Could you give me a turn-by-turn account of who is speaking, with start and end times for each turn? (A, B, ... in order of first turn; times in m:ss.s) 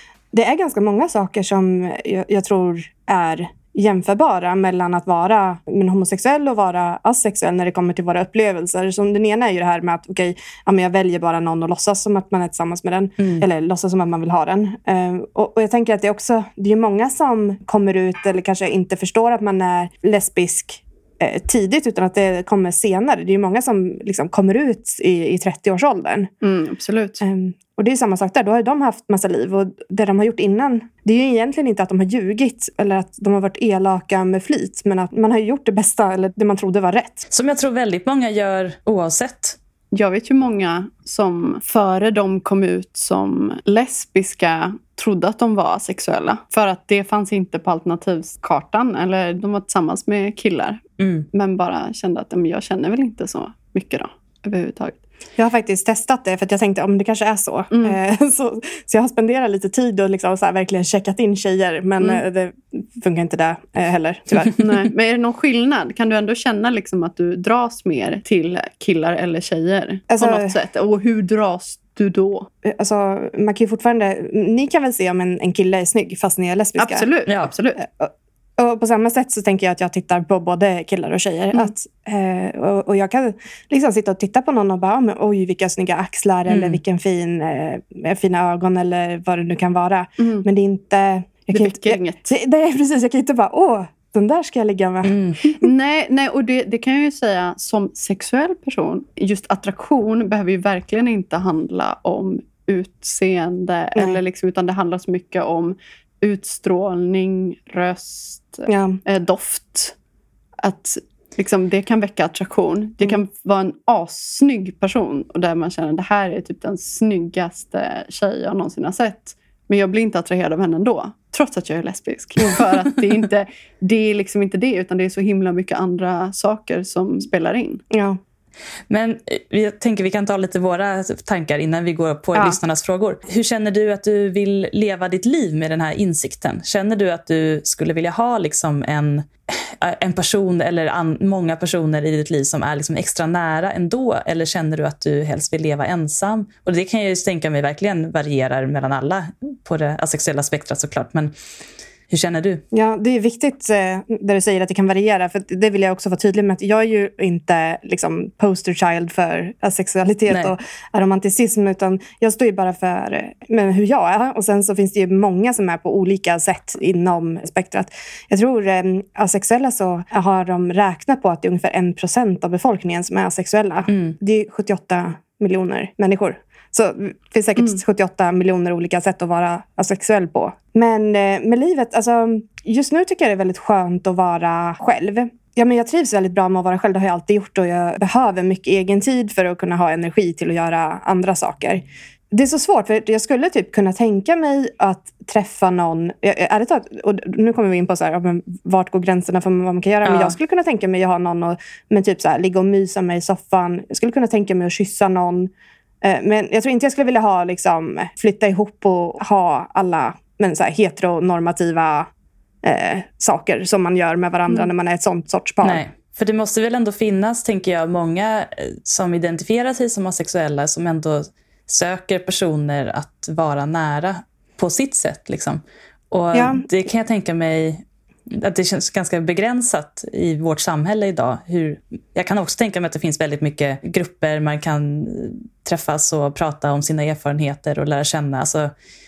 0:00.3-0:26.3 A
0:13.2-0:13.4 B
0:26.4-0:27.2 C
0:27.2-0:37.3 A
0:37.3-0:39.6 B
0:39.9-0:50.8 C
0:51.0-0:51.3 B
0:51.3-0:55.0 C
0:55.4-1:04.6 A
0:57.7-0:58.0 C
1:04.6-1:12.5 C
1:10.1-1:10.5 A
1:12.6-1:17.1 A
1:16.8-1:17.8 C
1:17.8-1:35.6 A
1:26.5-1:26.8 B
1:30.2-1:30.4 C
1:31.5-1:32.3 C
1:35.0-1:35.4 B
1:35.5-1:49.9 C
1:48.7-1:49.0 A
1:50.6-2:07.8 C
2:07.9-2:08.2 A
2:08.9-2:31.3 B
2:32.1-2:32.6 B
2:32.7-3:25.5 A
2:53.9-2:54.2 B
3:20.0-3:20.4 B
3:26.0-3:32.1 A
3:32.6-3:35.8 A
3:35.6-3:58.7 B
3:46.3-3:46.6 A